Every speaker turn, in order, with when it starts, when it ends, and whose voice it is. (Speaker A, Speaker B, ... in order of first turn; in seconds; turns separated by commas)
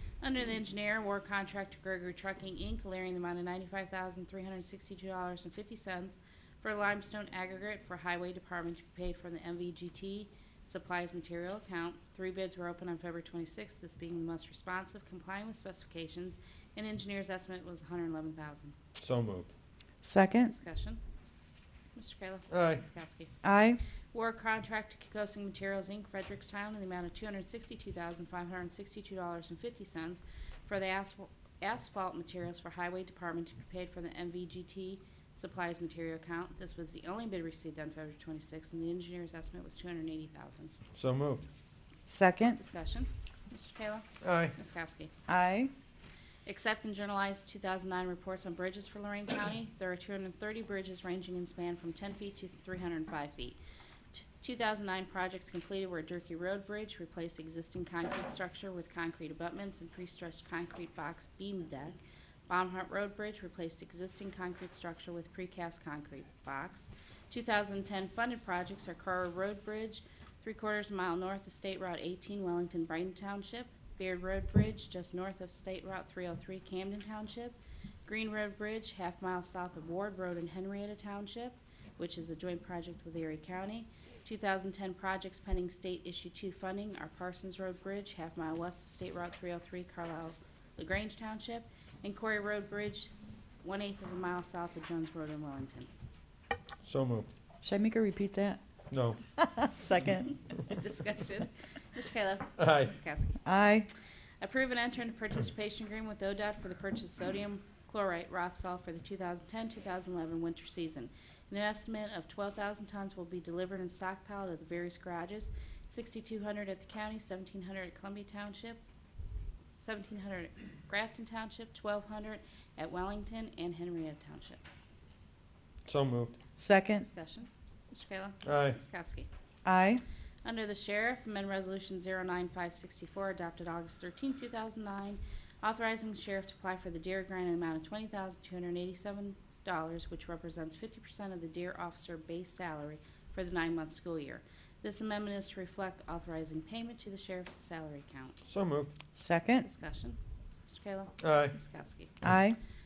Speaker A: 0.2-18.8, Speaker B: 19.0-19.5, Speaker C: 20.0-20.5, Speaker A: 20.4-21.0, Speaker A: 21.9-23.3, Speaker B: 22.5-22.8, Speaker C: 23.4-23.8, Speaker A: 24.1-40.7, Speaker B: 41.0-41.4, Speaker C: 42.1-42.6, Speaker A: 42.5-45.1, Speaker B: 44.2-44.5, Speaker C: 45.3-45.7, Speaker A: 46.4-53.6, Speaker A: 54.1-93.1, Speaker A: 93.6-95.9, Speaker B: 96.8-97.3, Speaker C: 97.6-98.6, Speaker B: 98.9-99.2, Speaker C: 99.3-100.4, Speaker A: 100.3-103.4, Speaker B: 102.6-102.9, Speaker C: 103.5-103.9, Speaker A: 104.4-118.8, Speaker A: 119.8-124.6, Speaker B: 125.8-126.3, Speaker C: 126.5-127.0, Speaker A: 127.0-129.3, Speaker B: 128.4-128.8, Speaker C: 129.6-130.0, Speaker A: 130.4-148.4, Speaker B: 148.5-148.9, Speaker C: 149.1-149.7, Speaker A: 149.6-152.2, Speaker B: 151.2-151.5, Speaker C: 152.2-152.6